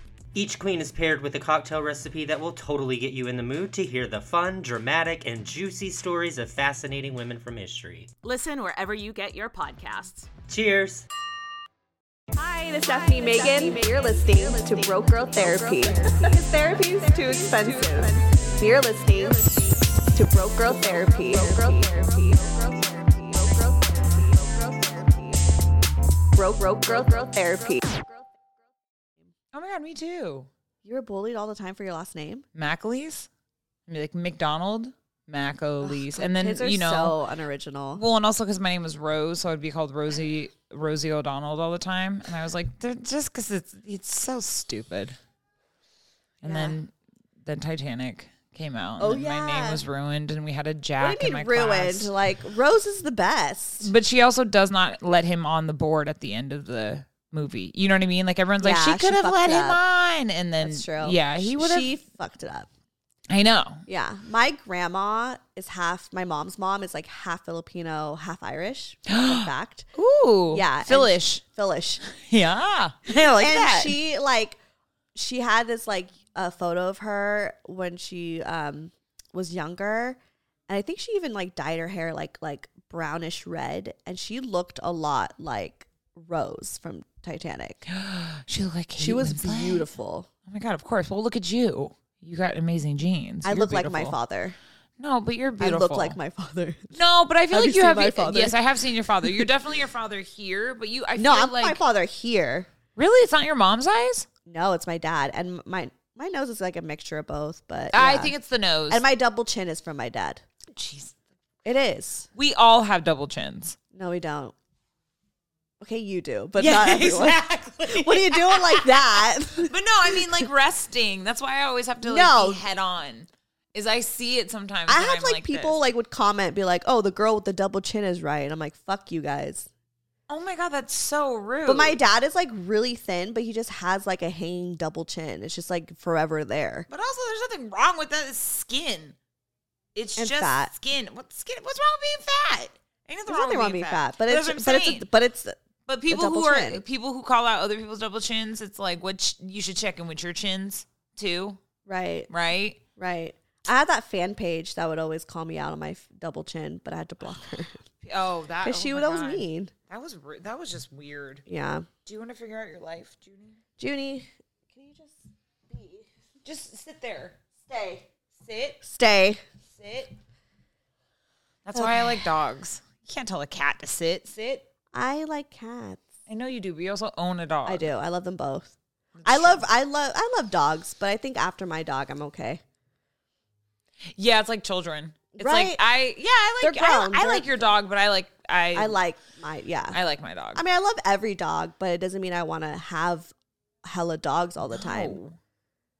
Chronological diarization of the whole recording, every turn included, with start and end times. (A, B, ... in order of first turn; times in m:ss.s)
0:00.3-0:08.1 A
0:08.2-0:10.3 B
0:10.5-0:11.1 A
0:12.4-0:25.9 C
0:12.8-0:22.4 D
0:26.4-0:27.8 D
0:26.4-0:28.3 C
0:29.5-0:30.5 E
0:30.8-0:32.4 D
0:32.5-0:33.3 E
0:33.9-0:37.2 E
0:35.8-0:38.0 D
0:37.9-0:45.2 E
0:46.4-0:46.9 E
0:46.4-0:46.8 D
0:47.4-0:52.1 E
0:49.0-0:49.8 D
0:51.0-0:53.9 D
0:53.8-1:01.9 E
0:58.6-0:59.8 D
1:00.6-1:02.7 D
1:03.3-1:03.8 E
1:03.9-1:09.9 D
1:09.1-1:11.4 E
1:10.5-1:12.0 D
1:12.1-1:14.0 E
1:13.3-1:14.6 D
1:15.1-1:27.8 D
1:27.9-1:29.9 E
1:29.0-1:30.3 D
1:30.5-1:34.2 E
1:33.4-1:34.6 D
1:35.0-1:36.2 E
1:35.6-1:37.0 D
1:36.9-1:41.8 E
1:37.5-1:38.6 D
1:39.2-1:39.5 D
1:41.2-1:42.7 D
1:43.0-1:44.3 E
1:44.4-1:48.3 D
1:47.9-1:49.0 E
1:48.9-1:50.4 D
1:50.7-1:51.2 E
1:51.6-1:52.3 D
1:52.3-1:53.8 E
1:53.9-1:54.5 D
1:55.8-2:00.4 D
1:56.6-2:05.8 E
2:02.0-2:02.6 D
2:04.9-2:09.7 D
2:10.3-2:12.0 E
2:11.6-2:16.9 D
2:16.9-2:19.2 E
2:19.9-2:25.1 E
2:20.2-2:20.7 D
2:23.3-2:25.6 D
2:25.9-2:31.6 E
2:26.1-2:26.8 D
2:31.8-2:32.3 D
2:32.3-2:32.8 E
2:33.0-2:37.8 D
2:38.0-2:41.4 E
2:38.6-2:39.7 D
2:41.5-2:41.9 D
2:42.0-2:43.6 E
2:43.8-2:46.1 D
2:46.4-2:47.4 E
2:47.6-2:48.1 D
2:48.4-2:48.8 E
2:48.8-2:49.4 D
2:49.8-2:50.1 E
2:51.6-2:54.7 E
2:51.7-2:52.1 D
2:54.9-2:56.0 D
2:56.3-2:57.9 E
2:57.6-3:02.6 D
2:59.1-2:59.6 E
3:04.1-3:09.0 E
3:05.3-3:05.8 D
3:06.6-3:07.5 D
3:08.7-3:10.0 D
3:09.9-3:10.6 E
3:10.5-3:13.3 D
3:13.8-3:15.2 D
3:14.7-3:15.4 E